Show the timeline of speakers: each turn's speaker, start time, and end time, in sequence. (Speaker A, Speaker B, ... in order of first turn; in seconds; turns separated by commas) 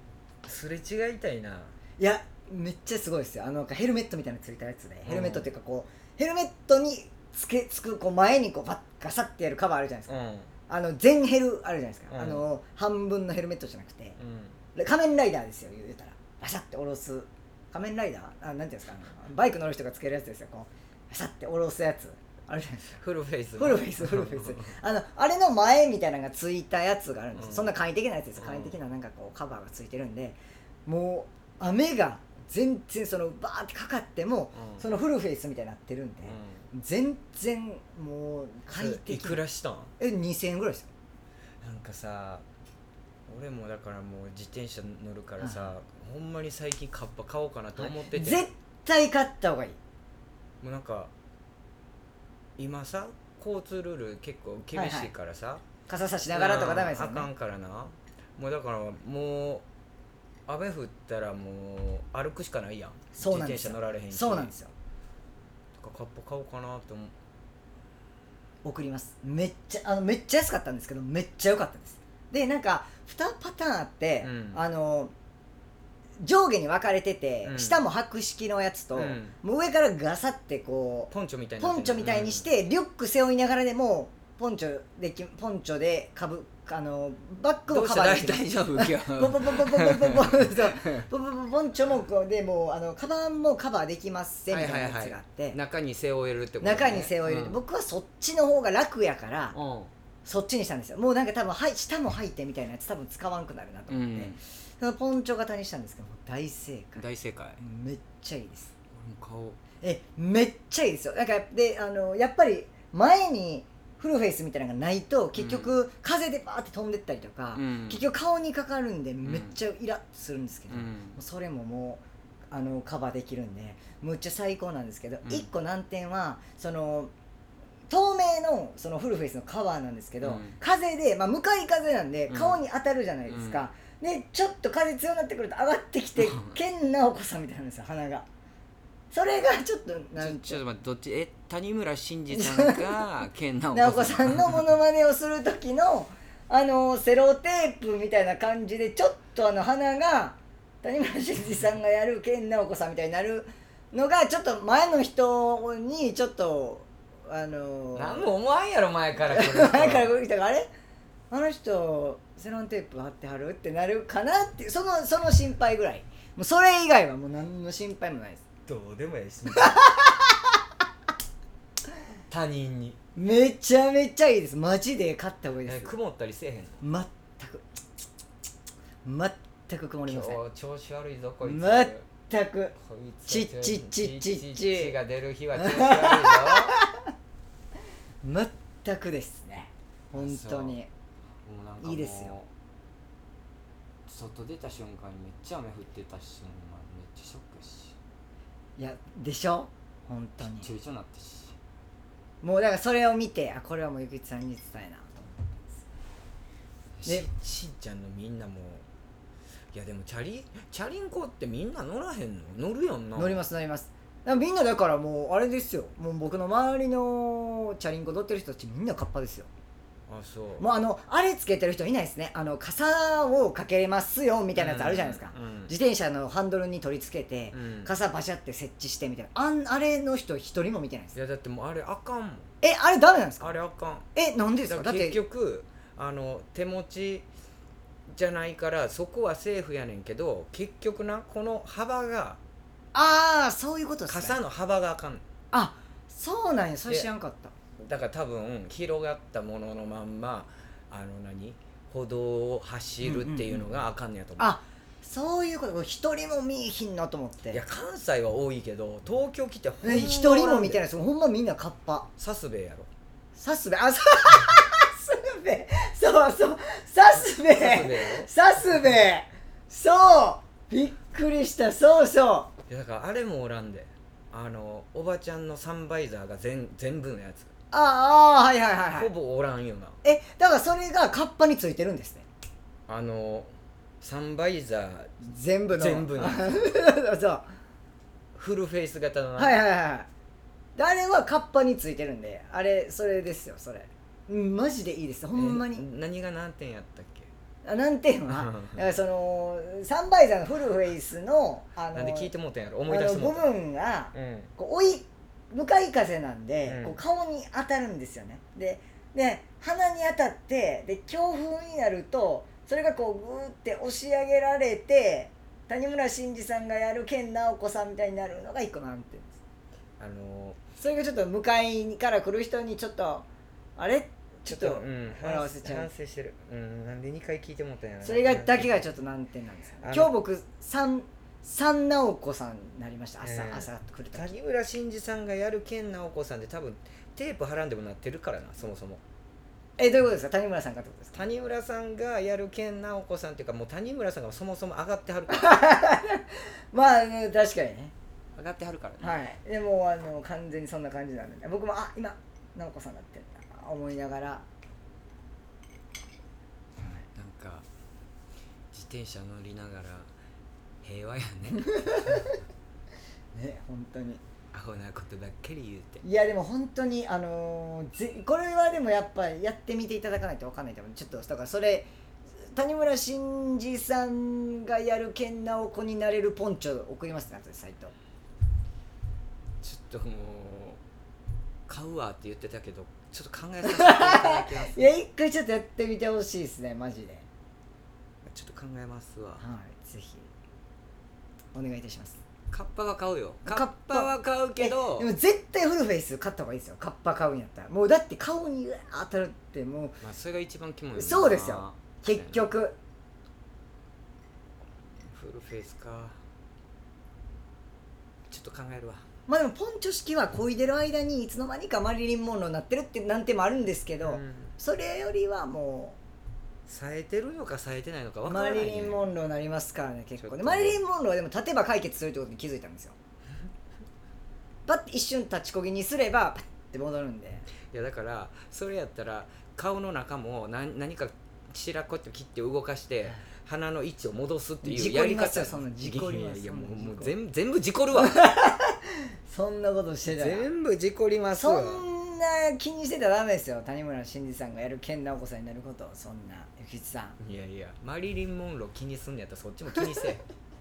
Speaker A: 0.4-1.8, Speaker B: 2.0-10.1, Speaker A: 5.0-5.5, Speaker A: 10.1-10.5, Speaker B: 10.7-14.2, Speaker A: 12.1-12.5, Speaker A: 14.2-14.6, Speaker B: 14.8-23.0, Speaker A: 23.0-24.7, Speaker B: 23.6-39.4, Speaker A: 27.4-27.7, Speaker A: 28.4-28.8, Speaker A: 34.5-34.8, Speaker A: 36.2-36.6, Speaker A: 38.8-39.9, Speaker B: 40.0-40.9, Speaker A: 41.6-42.5, Speaker A: 43.3-48.5, Speaker B: 45.4-45.7, Speaker B: 47.8-49.8, Speaker A: 50.6-51.1, Speaker A: 52.6-55.6, Speaker B: 54.7-55.1, Speaker B: 55.9-57.3, Speaker A: 56.3-59.6, Speaker A: 60.5-64.5, Speaker B: 63.1-64.7, Speaker A: 65.8-67.1, Speaker B: 68.6-75.1, Speaker A: 74.2-74.6, Speaker B: 76.2-95.6, Speaker A: 77.5-77.8, Speaker A: 78.9-79.4, Speaker A: 81.1-82.5, Speaker A: 87.7-91.0, Speaker A: 94.5-97.6, Speaker B: 96.6-99.6, Speaker A: 99.5-99.9, Speaker B: 100.2-107.1, Speaker A: 103.9-104.4, Speaker A: 107.0-107.6, Speaker B: 107.6-108.7, Speaker A: 108.9-109.6, Speaker B: 109.8-127.1, Speaker A: 115.4-115.8, Speaker A: 117.5-118.0, Speaker A: 119.2-119.5, Speaker A: 120.7-121.2, Speaker B: 127.9-138.3, Speaker A: 130.2-130.6, Speaker A: 132.3-132.6, Speaker A: 133.3-133.7, Speaker A: 136.2-136.6, Speaker B: 139.1-140.6, Speaker A: 140.2-144.7, Speaker B: 142.3-142.9, Speaker B: 143.7-158.3, Speaker A: 157.9-160.2, Speaker B: 159.2-160.7, Speaker B: 161.3-168.4, Speaker A: 168.7-169.8, Speaker B: 169.6-170.5, Speaker A: 172.3-173.0, Speaker B: 173.2-175.9, Speaker A: 175.7-176.8, Speaker B: 176.8-177.7, Speaker B: 179.1-180.4, Speaker A: 180.1-182.1, Speaker B: 181.4-185.0, Speaker A: 182.8-186.8, Speaker B: 185.6-187.0, Speaker B: 188.2-190.9, Speaker A: 190.1-190.8, Speaker A: 191.4-192.5, Speaker B: 191.8-192.3, Speaker A: 194.1-198.0, Speaker B: 198.8-200.7, Speaker A: 200.4-201.6, Speaker B: 202.4-205.8, Speaker A: 207.0-208.8, Speaker A: 209.7-213.4, Speaker B: 213.2-219.5, Speaker A: 220.1-220.7, Speaker B: 220.6-231.2, Speaker A: 224.6-225.7, Speaker A: 227.5-227.9, Speaker A: 231.2-232.5, Speaker B: 232.6-233.6, Speaker A: 233.4-234.1, Speaker B: 234.2-235.2, Speaker A: 234.7-237.3, Speaker A: 238.1-242.4, Speaker B: 242.9-244.4, Speaker A: 244.1-245.2, Speaker B: 245.5-247.5, Speaker A: 247.8-254.5, Speaker B: 253.0-253.7, Speaker B: 254.4-257.6, Speaker A: 257.5-260.8, Speaker B: 259.8-262.1, Speaker A: 262.2-262.9, Speaker B: 263.4-272.5, Speaker A: 267.5-268.3, Speaker A: 272.7-277.5, Speaker B: 277.7-279.1, Speaker A: 278.9-280.0, Speaker B: 280.0-282.2, Speaker A: 282.9-285.2, Speaker B: 285.2-287.5, Speaker A: 285.7-286.8, Speaker A: 288.4-289.6, Speaker B: 289.4-290.1, Speaker B: 290.8-295.9, Speaker A: 295.4-297.3, Speaker B: 297.6-302.3, Speaker A: 298.3-298.8, Speaker A: 301.9-303.5, Speaker B: 302.9-319.4, Speaker A: 304.1-304.5, Speaker A: 306.7-307.0, Speaker A: 320.0-320.6, Speaker B: 320.8-325.9, Speaker A: 324.5-328.9, Speaker B: 328.0-334.4, Speaker A: 329.8-330.1, Speaker A: 333.2-339.0, Speaker B: 339.8-341.2, Speaker A: 341.1-345.6, Speaker B: 345.3-347.9, Speaker A: 348.4-349.2, Speaker B: 349.0-354.4, Speaker B: 356.8-357.1, Speaker A: 357.1-357.7, Speaker A: 358.7-360.1, Speaker A: 360.8-362.3, Speaker B: 361.7-362.3, Speaker B: 363.3-364.2, Speaker A: 364.5-366.0, Speaker B: 366.0-371.9, Speaker B: 372.4-377.9, Speaker A: 379.6-380.8, Speaker A: 381.7-384.9, Speaker B: 383.6-387.2, Speaker A: 388.2-389.4, Speaker B: 389.4-390.3, Speaker B: 391.5-392.2, Speaker A: 392.5-395.1, Speaker B: 393.4-400.0, Speaker A: 400.0-402.5, Speaker B: 400.9-402.8, Speaker A: 405.1-406.2, Speaker A: 408.3-409.1, Speaker B: 409.3-416.0, Speaker A: 414.0-414.5, Speaker A: 416.7-419.0, Speaker B: 418.2-423.0, Speaker A: 420.2-420.8, Speaker B: 424.7-427.5, Speaker A: 427.7-438.2, Speaker B: 434.6-437.1, Speaker B: 438.0-440.5, Speaker A: 440.1-441.9, Speaker B: 441.4-447.2, Speaker A: 447.2-450.2